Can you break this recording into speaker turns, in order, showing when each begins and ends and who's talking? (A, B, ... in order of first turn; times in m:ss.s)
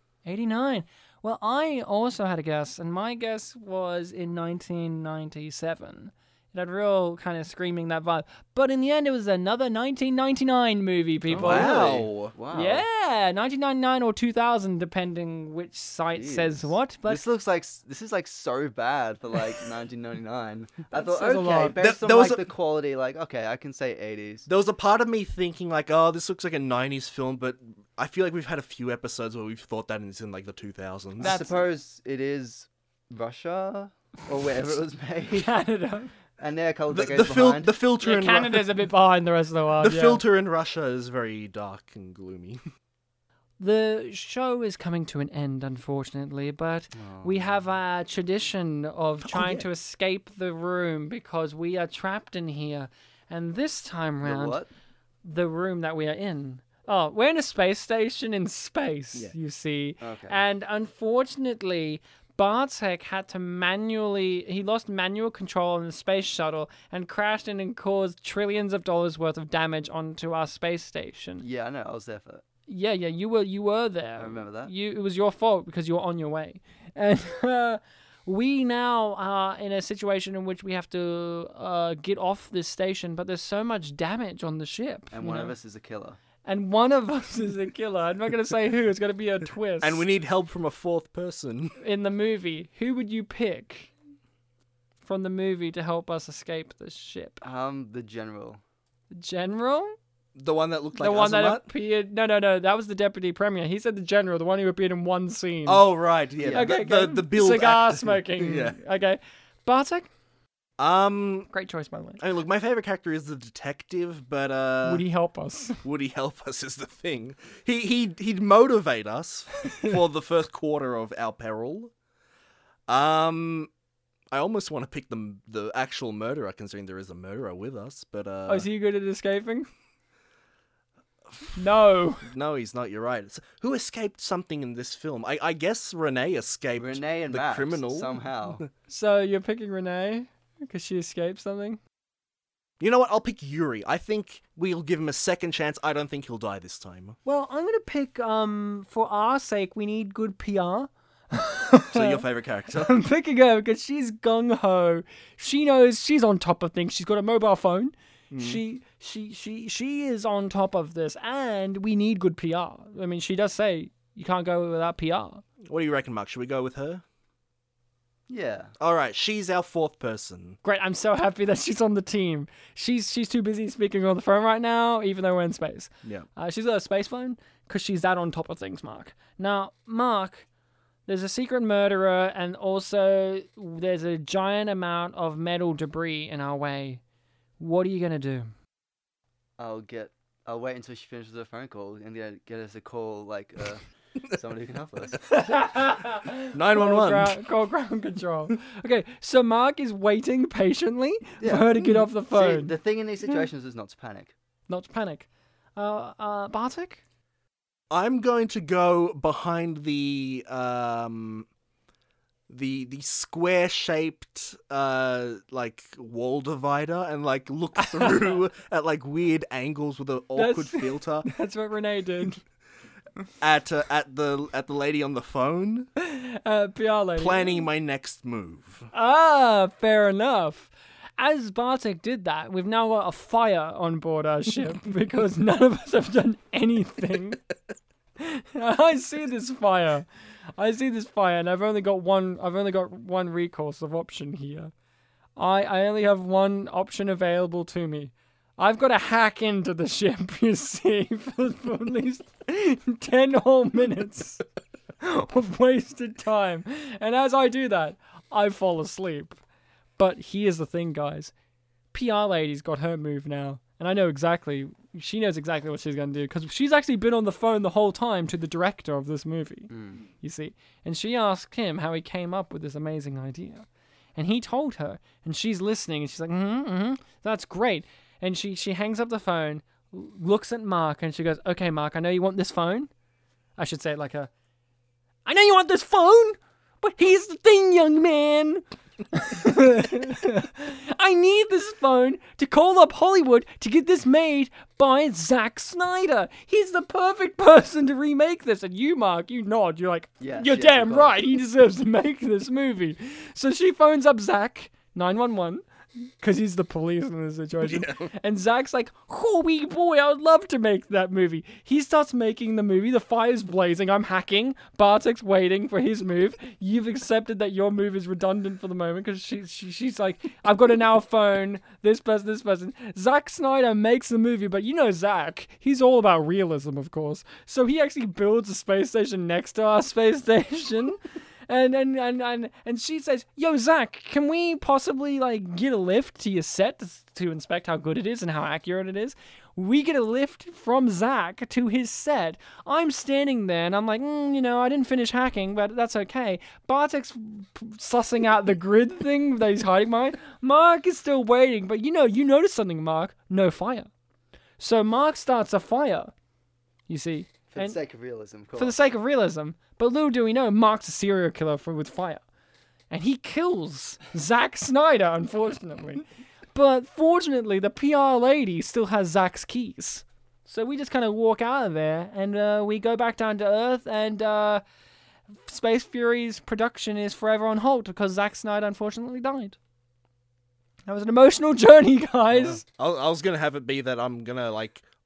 0:00.2-0:11.8 A
0:11.3-0:12.3 B
0:11.4-0:12.8 C
0:12.5-0:17.2 A
0:16.2-0:24.5 C
0:20.9-0:21.8 A
0:21.8-0:22.5 B
0:24.5-0:31.4 B
0:31.2-0:35.5 C
0:31.2-0:31.7 A
0:35.3-0:36.1 A
0:36.4-0:37.7 C
0:36.9-0:38.7 B
0:38.0-0:40.2 A
0:39.8-0:42.6 B
0:43.6-0:54.6 A
0:46.9-0:47.7 C
0:49.3-0:49.6 B
0:54.2-0:54.7 C
0:55.2-1:11.4 A
1:00.0-1:00.4 C
1:11.4-1:12.4 C
1:12.7-1:25.5 A
1:14.2-1:14.7 C
1:25.1-1:26.2 C
1:26.4-1:30.0 A
1:29.8-1:31.8 B
1:31.8-1:33.9 A
1:35.0-1:37.4 A
1:37.4-1:38.6 C
1:39.1-1:39.9 A
1:40.4-1:41.6 B
1:41.0-1:45.8 A
1:45.7-1:48.8 B
1:46.4-1:46.8 C
1:46.5-1:50.1 A
1:50.8-1:51.5 B
1:51.5-1:52.2 A
1:52.2-1:55.0 B
1:54.8-1:55.8 A
1:55.8-2:01.9 B
2:02.9-2:03.7 B
2:04.3-2:08.7 B
2:08.5-2:09.7 A
2:11.3-2:11.6 B
2:11.6-2:12.3 A
2:12.2-2:18.7 B
2:16.8-2:18.6 C
2:18.9-2:21.8 A
2:22.8-2:27.2 B
2:27.2-2:32.2 A
2:31.9-2:32.9 B
2:32.8-2:45.4 A
2:38.3-2:38.6 B
2:45.7-2:47.0 B
2:48.3-2:48.7 C
2:48.8-2:50.6 B
2:50.6-3:00.5 A
3:01.1-3:07.0 A
3:07.6-3:08.5 A
3:09.6-3:15.2 C
3:15.3-3:22.7 A
3:16.5-3:17.4 B
3:21.4-3:24.3 C
3:24.7-3:27.0 A
3:27.9-3:31.5 B
3:32.5-3:41.3 B
3:37.8-3:38.4 A
3:40.4-3:42.4 A
3:43.4-3:45.9 B
3:46.0-3:47.6 A
3:47.2-3:48.9 B
3:48.9-3:57.4 A
3:58.2-4:00.1 A
4:00.6-4:04.7 A
4:05.4-4:14.4 A
4:15.0-4:19.4 A
4:20.0-4:21.3 A
4:21.9-4:42.9 A
4:29.7-4:30.0 C
4:43.6-4:44.3 A
4:45.3-5:05.6 A
5:00.2-5:01.2 C
5:06.2-5:53.9 A
5:07.6-5:08.1 B
5:54.6-5:56.1 A
5:56.9-5:57.8 A
5:57.5-5:58.8 C
5:58.6-6:02.2 A
6:02.9-6:06.0 A
6:06.5-6:14.6 A
6:15.5-6:19.6 A
6:20.9-6:22.6 A
6:22.3-6:24.8 B